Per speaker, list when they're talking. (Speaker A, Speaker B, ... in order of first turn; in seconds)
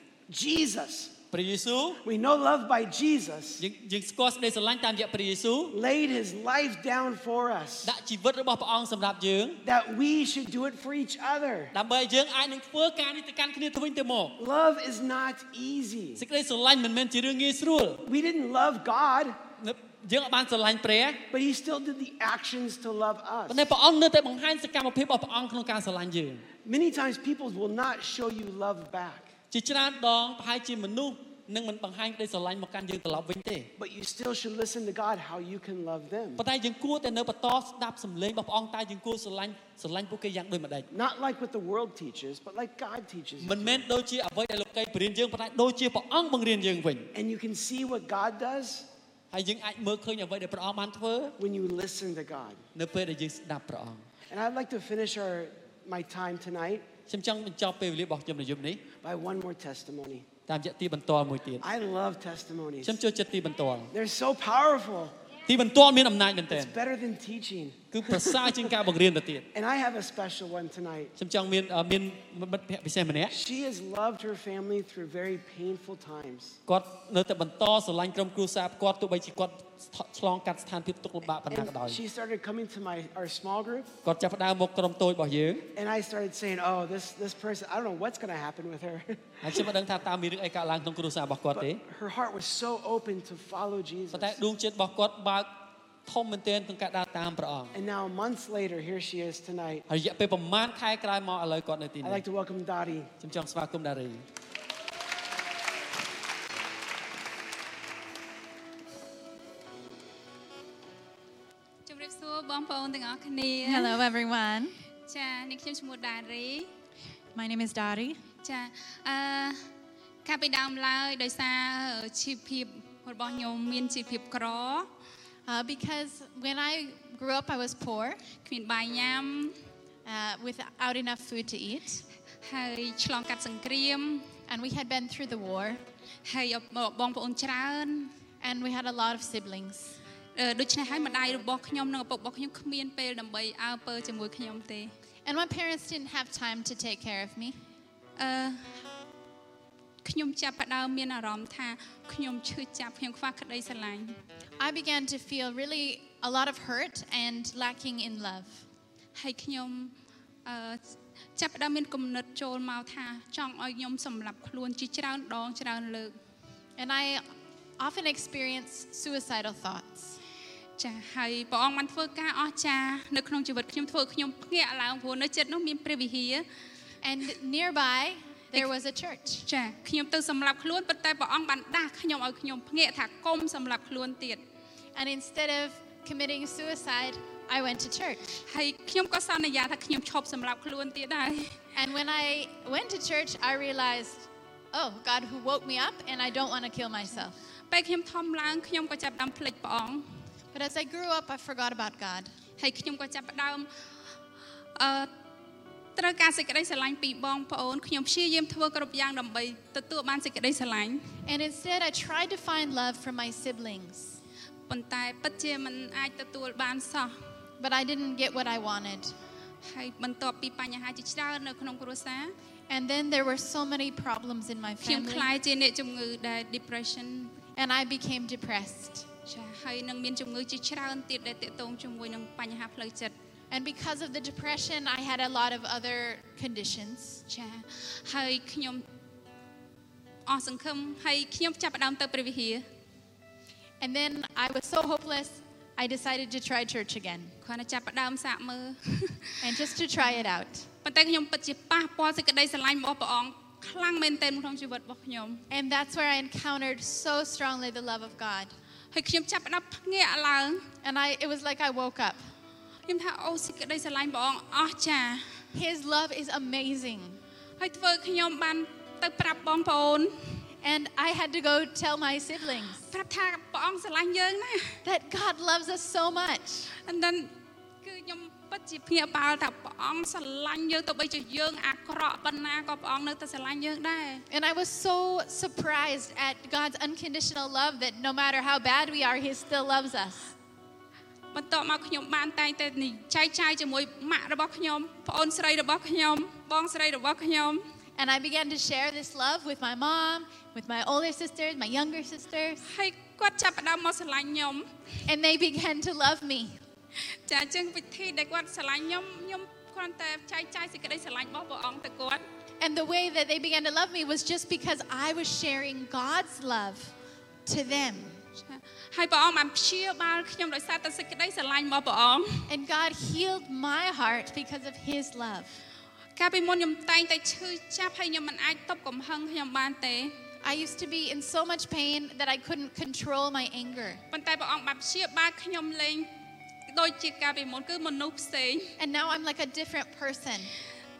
Speaker A: 0.3-1.1, 2.0-3.6, 5.7-7.9, 9.6-11.7, 14.4-16.2, 18.1-19.4, 21.3-23.7, 26.6-29.3, 33.8-36.4, 40.9-43.9, 47.1-48.9, 51.4-52.6, 54.3-56.9, 59.0-60.3, 61.6-63.0, 63.9-65.2, 66.5-68.8, 69.5-71.1, 73.3-76.6, 81.5-83.9, 85.8-89.6, 91.5-94.4, 97.7-99.8, 102.0-103.1
Speaker B: 1.3-2.0, 3.6-5.7, 7.8-9.6, 11.7-14.4, 16.2-18.1, 19.6-21.2, 23.5-26.5, 29.5-33.7, 36.4-40.9, 43.4-47.1, 49.3-51.4, 52.7-54.1, 57.1-58.9, 60.5-61.7, 62.8-63.9, 65.5-66.7, 67.9-69.5, 71.2-73.4, 76.7-82.0, 84.0-85.7, 89.4-91.8, 94.1-95.5, 96.1-97.7, 99.9-102.2, 103.2-104.2
Speaker C: 111.9-114.0, 115.1-116.7, 118.4-119.6, 120.2-124.9, 128.4-129.6, 132.4-134.3, 136.2-138.1, 140.4-144.9, 148.2-148.7, 150.0-154.2, 159.1-166.2, 170.8-176.4, 179.4-184.4, 188.5-191.6, 197.7-200.0, 202.6-203.7, 204.8-205.1, 205.9-211.1, 214.7-217.1, 219.6-222.3, 224.8-227.4, 229.3-233.1, 237.3-238.9, 240.3-242.6, 247.4-249.6, 250.8-255.4, 258.9-260.6, 262.9-265.2, 267.6-270.1, 272.9-274.8, 276.8-284.2, 291.3-297.6, 302.6-304.7, 307.3-312.2, 318.4-322.5, 326.1-330.1, 334.1-336.1, 336.7-338.7
Speaker D: 113.6-114.7, 117.3-118.2, 125.5-128.2, 130.1-132.0, 134.5-135.8, 138.4-140.0, 145.2-147.6, 154.6-158.6, 166.8-167.2, 167.8-170.2, 177.0-179.4, 184.9-188.4, 191.7-197.4, 200.5-202.3, 211.3-214.2, 217.6-219.1, 222.7-225.3, 227.6-229.1, 233.5-237.2, 243.8-247.3, 249.4-250.7, 255.5-258.6, 260.8-262.2, 265.5-267.2, 270.6-272.8, 274.8-276.7, 284.3-290.3, 297.9-302.6, 305.1-306.6, 312.6-316.9, 317.4-318.2, 322.5-325.6, 330.4-334.0, 338.8-340.5